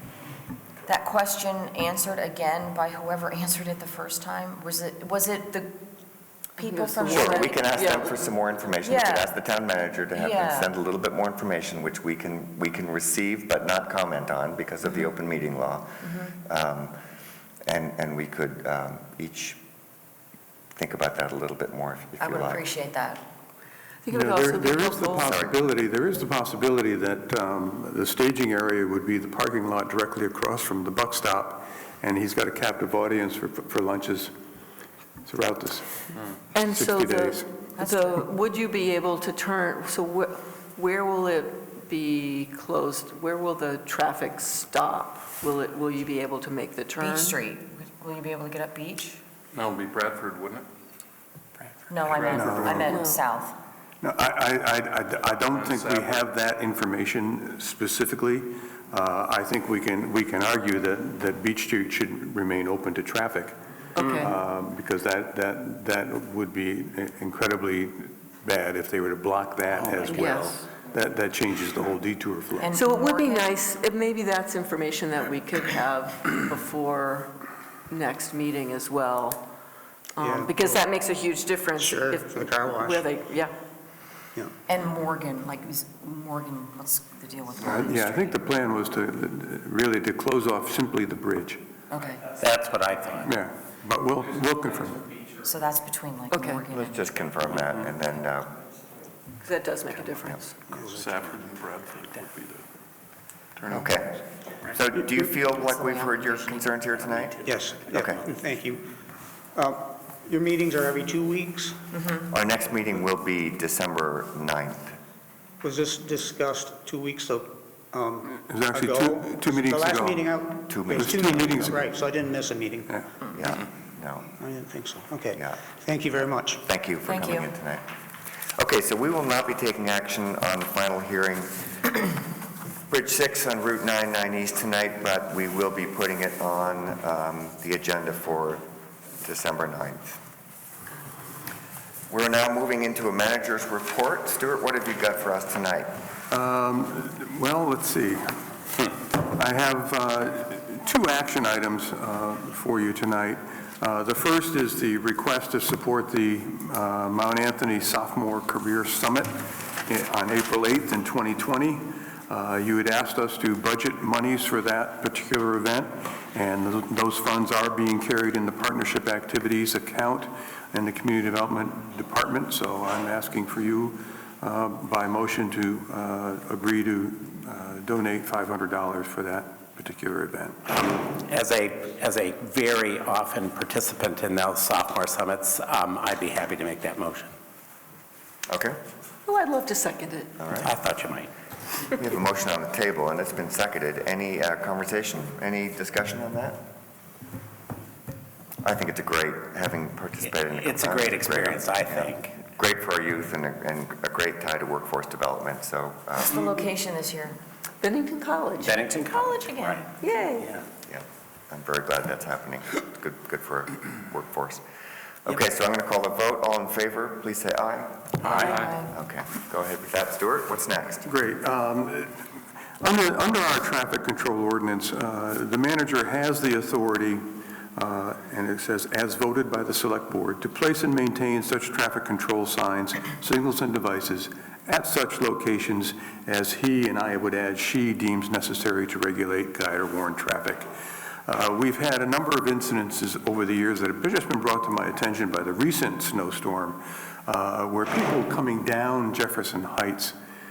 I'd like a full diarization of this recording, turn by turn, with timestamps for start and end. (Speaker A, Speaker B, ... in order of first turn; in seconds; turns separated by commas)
Speaker A: 0.9-5.8, Speaker A: 6.6-7.6, Speaker B: 6.6-8.2, Speaker C: 7.0-16.9, Speaker A: 8.8-9.3, Speaker A: 10.1-10.7, Speaker C: 17.7-19.6, Speaker C: 20.8-22.6, Speaker A: 22.2-23.2, Speaker B: 24.1-25.3, Speaker D: 24.1-34.3, Speaker C: 25.2-25.6, Speaker D: 35.3-36.0, Speaker B: 36.5-47.4, Speaker D: 36.6-37.5, Speaker A: 37.8-38.2, Speaker A: 47.0-49.2, Speaker E: 49.5-50.7, Speaker A: 51.9-53.6, Speaker E: 52.0-53.0, Speaker D: 52.3-52.9, Speaker B: 52.9-53.2, Speaker D: 54.0-72.8, Speaker E: 55.3-56.3, Speaker B: 64.0-64.3, Speaker B: 69.9-70.6, Speaker A: 72.6-73.5, Speaker B: 72.7-77.3, Speaker B: 77.9-79.4, Speaker B: 80.2-83.5, Speaker F: 80.2-80.8, Speaker F: 81.8-83.1, Speaker A: 84.7-88.4, Speaker D: 87.6-91.6, Speaker A: 91.9-92.3, Speaker G: 92.4-93.3, Speaker D: 93.2-95.2, Speaker A: 95.4-97.1, Speaker B: 96.3-96.6, Speaker C: 96.7-98.6, Speaker B: 99.4-100.6, Speaker E: 100.7-102.7, Speaker F: 100.7-101.5, Speaker E: 103.6-104.0, Speaker C: 103.7-108.2, Speaker A: 105.4-106.7, Speaker F: 107.5-108.9, Speaker F: 109.5-111.8, Speaker A: 112.0-112.2, Speaker C: 112.3-115.0, Speaker F: 115.6-123.0, Speaker D: 118.3-120.2, Speaker C: 120.7-121.7, Speaker D: 120.9-121.8, Speaker C: 123.3-124.3, Speaker F: 124.4-126.6, Speaker C: 125.3-125.6, Speaker C: 126.6-127.8, Speaker A: 127.1-127.5, Speaker C: 128.6-131.7, Speaker C: 132.9-138.6, Speaker C: 139.2-140.2, Speaker C: 142.1-145.9, Speaker D: 146.3-148.3, Speaker D: 148.9-180.6, Speaker G: 180.7-187.3, Speaker C: 188.5-188.8, Speaker B: 189.3-190.3, Speaker C: 190.4-190.7, Speaker G: 190.6-191.3, Speaker C: 191.9-196.7, Speaker C: 198.6-206.4, Speaker G: 200.2-202.3, Speaker A: 206.2-207.4, Speaker B: 207.8-208.8, Speaker G: 208.6-209.9, Speaker A: 209.1-209.9, Speaker B: 210.0-210.6, Speaker C: 210.9-214.6, Speaker C: 215.2-221.1, Speaker A: 218.3-218.9, Speaker D: 221.1-222.2, Speaker D: 222.8-227.2, Speaker D: 227.8-240.7, Speaker D: 241.3-250.1